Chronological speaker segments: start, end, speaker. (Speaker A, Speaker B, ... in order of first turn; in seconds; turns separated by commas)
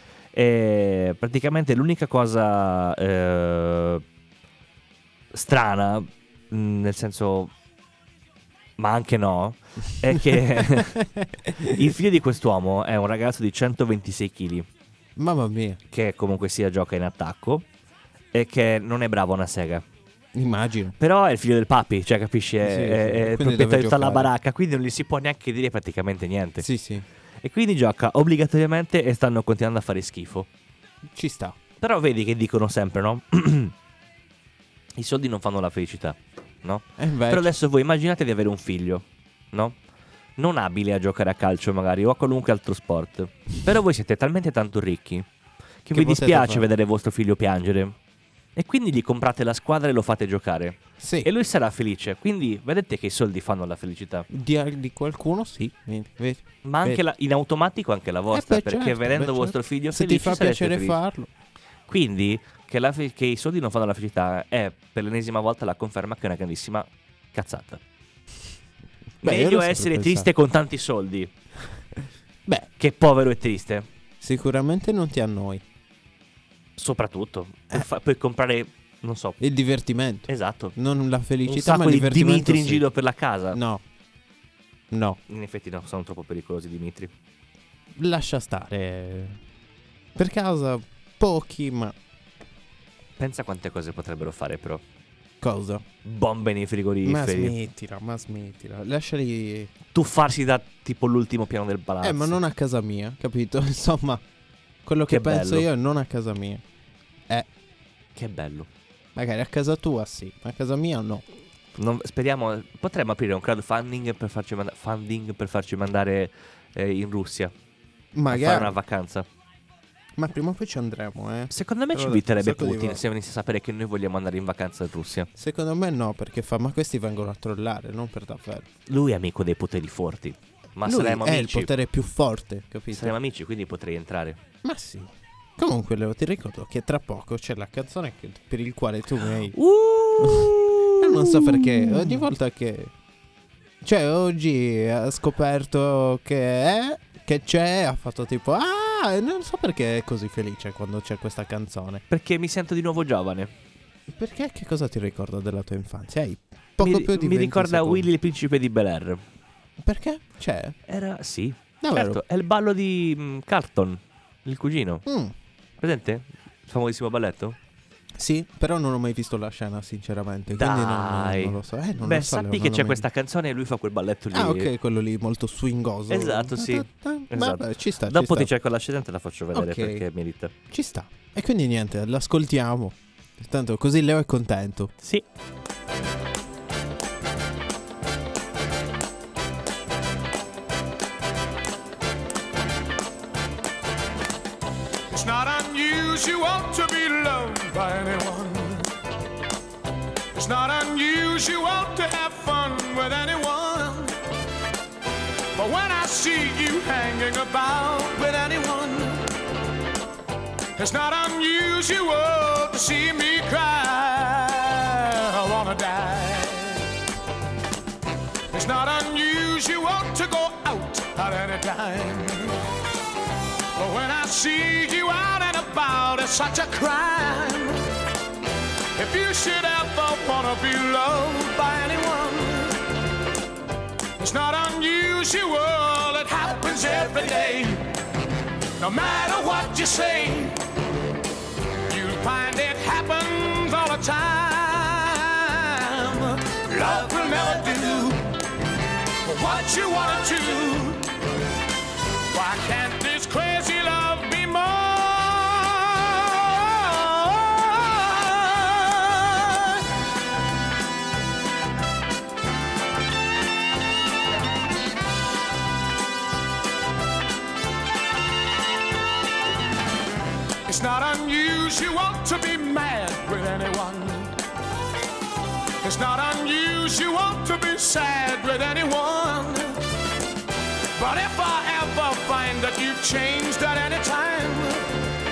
Speaker A: 0.3-4.0, Speaker A: 5.3-7.5, Speaker A: 8.8-11.0, Speaker B: 10.1-11.8, Speaker A: 11.6-14.7, Speaker B: 15.2-15.8, Speaker A: 15.9-17.6, Speaker A: 18.3-19.8, Speaker B: 20.3-20.9, Speaker A: 21.0-26.6, Speaker B: 22.6-24.3, Speaker B: 26.6-27.1, Speaker A: 27.4-30.5, Speaker B: 31.1-31.6, Speaker A: 31.8-33.7, Speaker A: 35.0-39.8, Speaker B: 37.0-37.5, Speaker A: 40.4-45.2, Speaker A: 45.8-47.9, Speaker B: 45.9-46.7, Speaker A: 48.5-54.2, Speaker B: 51.0-51.3, Speaker B: 54.3-57.0, Speaker A: 56.6-61.0, Speaker B: 58.3-61.3, Speaker A: 61.9-67.8, Speaker B: 69.2-70.3, Speaker A: 69.2-71.3, Speaker A: 72.8-73.8, Speaker B: 74.2-75.6, Speaker A: 76.8-79.4, Speaker B: 79.4-82.8, Speaker A: 80.3-80.7, Speaker A: 81.5-83.6, Speaker B: 83.5-83.8, Speaker B: 84.9-85.2, Speaker A: 85.3-87.1, Speaker B: 87.9-89.4, Speaker B: 90.2-91.9, Speaker A: 93.2-94.8, Speaker B: 95.4-95.8, Speaker A: 96.0-97.5, Speaker B: 97.0-99.7, Speaker A: 99.9-102.4, Speaker B: 102.0-104.2, Speaker B: 104.8-106.6, Speaker A: 105.1-105.7, Speaker A: 108.2-108.7, Speaker B: 109.1-111.2, Speaker A: 111.8-117.5, Speaker B: 118.1-118.7, Speaker A: 118.3-119.2, Speaker B: 120.2-123.0, Speaker A: 121.5-125.3, Speaker B: 125.3-128.7, Speaker A: 128.9-131.7, Speaker B: 130.8-133.2, Speaker A: 132.9-134.4, Speaker B: 134.6-139.6, Speaker A: 139.5-142.2, Speaker B: 140.2-142.9, Speaker B: 143.8-152.0, Speaker A: 152.1-153.5, Speaker B: 154.1-158.1, Speaker A: 156.8-159.2, Speaker B: 159.8-160.8, Speaker A: 160.9-165.0, Speaker B: 161.8-162.2, Speaker B: 165.1-165.3, Speaker A: 165.8-167.6, Speaker B: 168.2-173.0, Speaker A: 170.5-174.7, Speaker B: 174.3-178.5, Speaker A: 176.1-180.5, Speaker B: 179.5-180.1, Speaker B: 180.7-184.9, Speaker C: 195.1-198.9, Speaker C: 200.3-204.2, Speaker C: 205.6-209.3, Speaker C: 210.8-216.8, Speaker C: 218.5-222.6, Speaker C: 223.8-227.8, Speaker C: 228.9-232.8, Speaker C: 234.2-237.8, Speaker C: 238.8-240.6, Speaker C: 241.9-248.2, Speaker C: 249.2-251.1, Speaker C: 252.3-259.8, Speaker C: 270.6-274.4, Speaker C: 275.8-279.8, Speaker C: 280.9-284.9